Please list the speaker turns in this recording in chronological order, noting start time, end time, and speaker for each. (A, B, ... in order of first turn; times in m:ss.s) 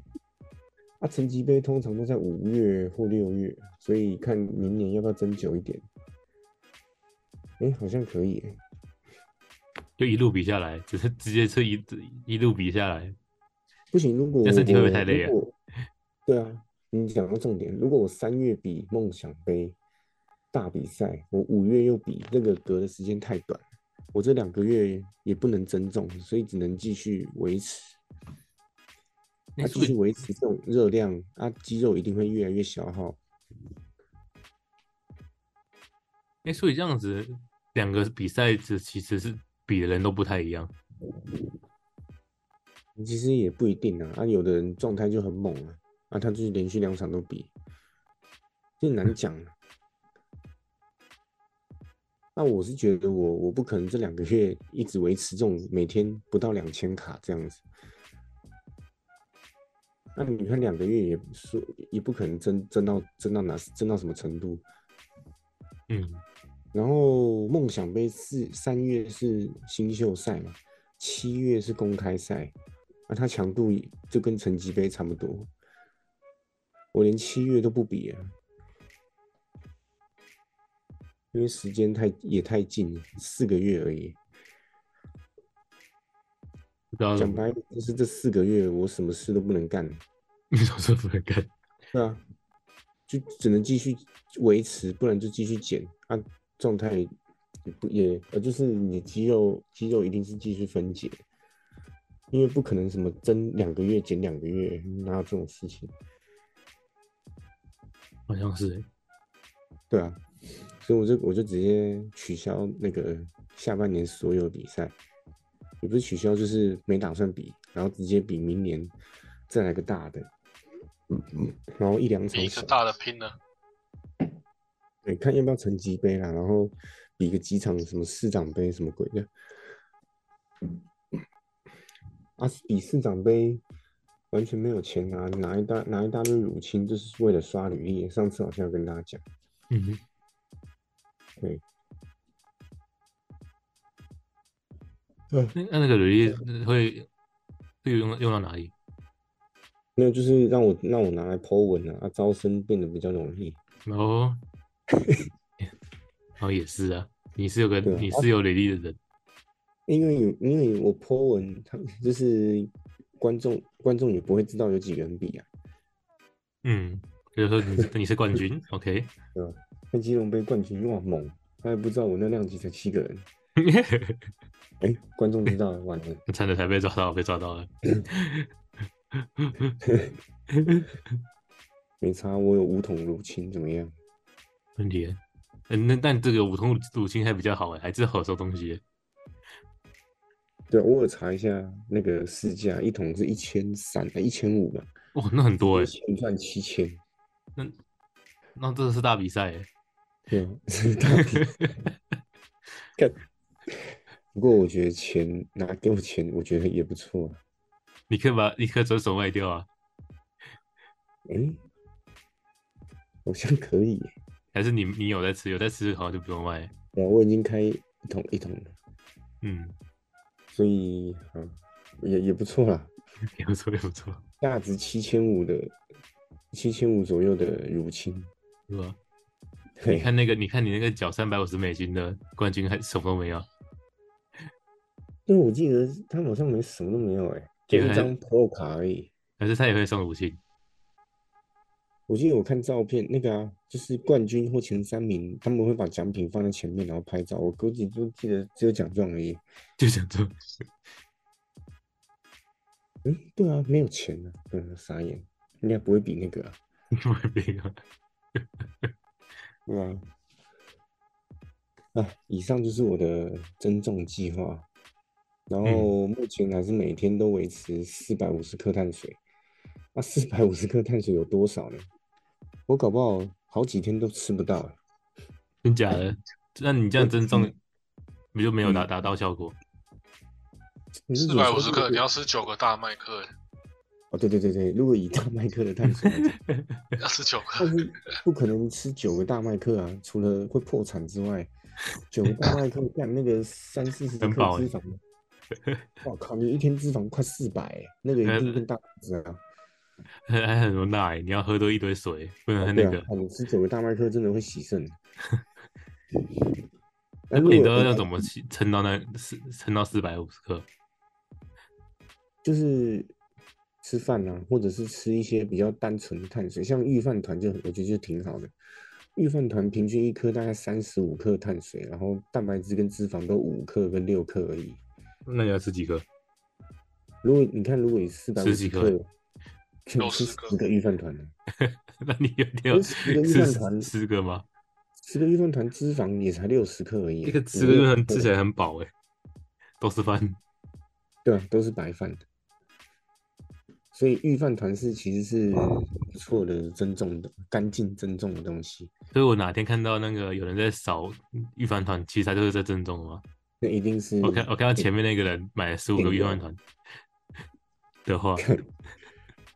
0:01.0-0:05.9 A
0:07.6-0:08.6 A
0:10.0-0:13.2 B
0:13.9-0:15.5 A
0:14.4-0:15.4 B
0:16.3-0:19.8 A
0:20.5-0:28.0 A
0:29.6-0:30.0 B
0:29.6-0:33.2 A
0:36.4-0:40.7 B
0:43.0-0:47.5 A
0:48.8-0:49.5 A
0:52.4-0:57.6 A
1:00.1-1:04.6 A
1:05.9-1:06.2 B
1:06.7-1:12.5 A
1:13.1-1:15.5 A
1:16.9-1:18.3 A
1:21.3-1:24.2 A
1:26.9-1:27.4 B
1:27.2-1:30.0 A
1:30.5-1:31.5 B
1:31.9-1:32.2 A
1:33.1-1:37.1 A
1:37.6-1:41.2 A
1:42.3-1:45.9 A
1:48.3-1:48.8 B
1:49.9-1:50.2 A
1:50.8-1:55.0 A
1:55.8-1:58.9 A
1:59.5-2:00.3 A
2:01.1-2:02.8 A
2:02.3-2:03.4 C
2:05.0-2:09.3 A
2:12.4-2:13.6 A
2:14.3-2:19.2 A
2:19.7-2:20.0 B
2:25.5-2:27.1 B
2:27.8-2:28.7 B
2:30.0-2:33.6 A
2:33.8-2:34.4 B
2:36.4-2:39.0 B
2:37.8-2:38.3 A
2:39.9-2:45.5 A
2:46.6-2:49.1 B
2:49.3-2:53.2 A
2:53.6-2:54.3 B
2:54.8-2:56.2 A
2:56.3-2:58.5 B
2:59.2-2:59.8 B
2:59.8-3:00.1 A
3:00.5-3:00.9 B
3:02.0-3:03.9 A
3:04.8-3:08.8 B
3:10.7-3:14.9 A
3:15.1-3:15.9 B
3:15.6-3:17.0 A
3:18.6-3:19.7 B
3:20.3-3:21.5 A
3:21.4-3:21.8 B
3:23.0-3:27.4 A
3:28.1-3:29.7 B
3:31.2-3:31.6 A
3:33.2-3:34.1 A
3:34.5-3:36.7 B
3:37.0-3:38.8 A
3:39.4-3:39.7 B
3:40.5-3:42.9 A
3:43.4-3:44.2 B
3:44.4-3:45.7 A
3:46.5-3:48.3 A
3:48.7-3:49.0 B
3:49.8-3:50.1 A
3:50.0-3:53.5 B
3:55.3-3:59.1 A
3:57.7-3:58.1 B
3:59.4-4:00.4 B
4:02.1-4:09.4 A
4:09.8-4:10.3 B
4:13.0-4:16.6 A
4:17.0-4:17.8 B
4:18.4-4:18.9 B
4:19.7-4:20.0 A
4:21.9-4:24.6 A
4:25.5-4:29.2 A
4:25.6-4:25.9 B
4:29.9-4:31.8 A
4:32.7-4:34.8 A
4:35.6-4:37.6 B
4:37.0-4:37.5 A
4:38.3-4:39.6 B
4:41.1-4:42.0 A
4:41.2-4:43.3 C
4:44.1-4:46.4 A
4:46.1-4:46.8 B
4:47.0-4:47.7 C
4:47.6-4:51.5 A
4:52.1-4:55.0 A
4:54.2-4:54.7 B
4:56.0-4:59.4 A
4:58.2-4:58.6 B
5:00.3-5:03.1 B
5:02.6-5:05.0 A
5:07.3-5:08.3 A
5:07.3-5:10.7 B
5:12.4-5:13.1 A
5:13.8-5:18.5 A
5:19.1-5:24.8 A
5:25.2-5:26.0 B
5:27.2-5:29.1 A
5:28.4-5:29.0 B
5:29.9-5:31.3 A
5:30.0-5:30.5 C
5:31.6-5:34.4 B
5:32.7-5:33.9 A
5:35.0-5:38.3 A
5:37.2-5:38.9 B
5:39.8-5:40.4 B
5:41.2-5:42.2 A
5:43.9-5:48.9 A
5:49.1-5:53.2 B
5:53.6-5:54.9 A
5:54.2-5:56.6 B
5:56.0-5:56.4 A
5:58.0-5:58.5 B
5:58.4-5:58.6 A